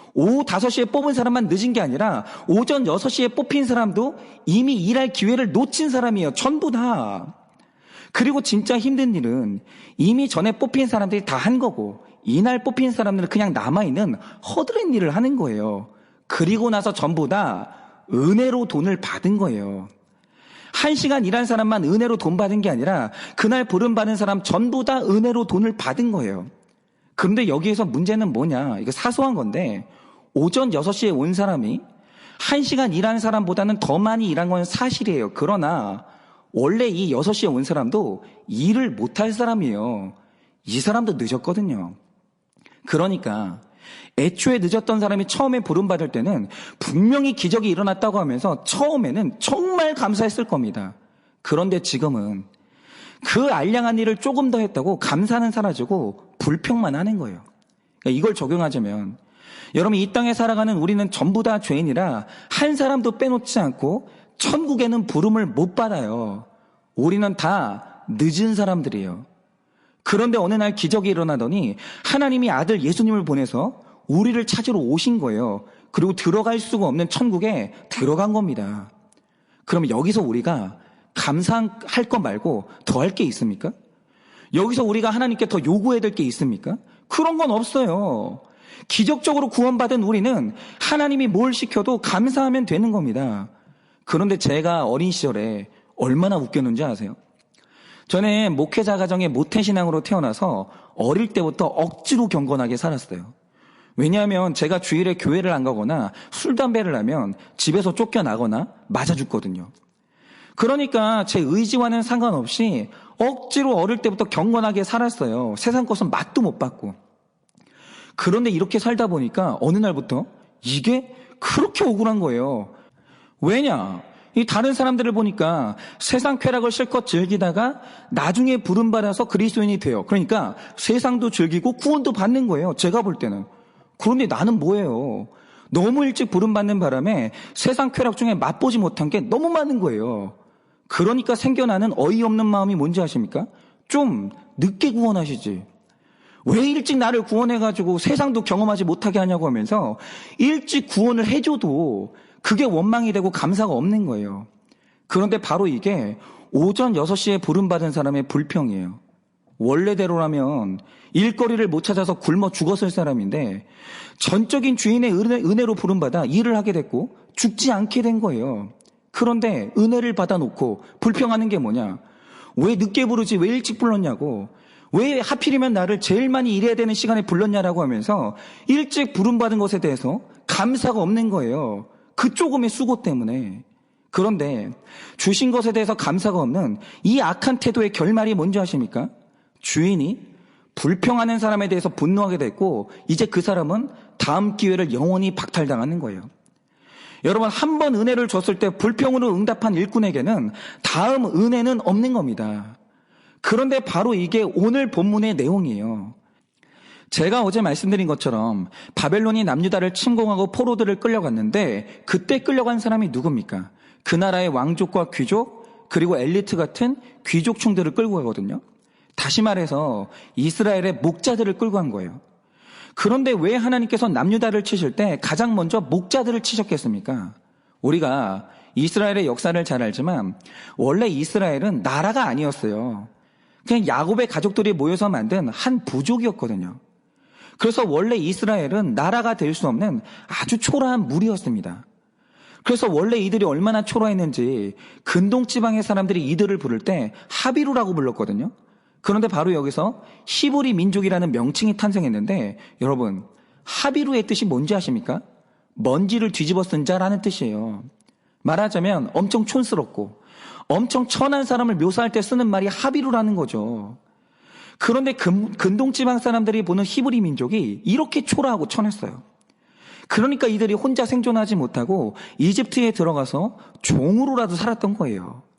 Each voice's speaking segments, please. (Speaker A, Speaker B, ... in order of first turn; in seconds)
Speaker A: 0.1-7.3, 8.1-19.9, 20.7-26.5, 27.2-31.8, 32.4-42.0, 42.8-43.6, 44.2-52.5, 53.2-57.4, 58.0-59.2, 59.7-69.2, 70.0-78.9, 79.7-83.7, 84.5-93.5, 94.0-97.2, 98.1-103.3, 104.0-109.7, 110.5-117.0, 118.2-122.7, 123.4-140.3, 140.9-145.7, 146.4-154.5, 155.1-159.0, 159.6-172.0, 172.6-189.1, 189.6-196.3, 197.2-202.8, 203.4-206.1, 207.1-218.6, 219.2-222.2, 222.9-233.1, 233.6-236.8, 237.6-241.8, 242.6-255.2, 255.8-257.9, 258.4-264.0, 264.8-269.2, 270.1-275.4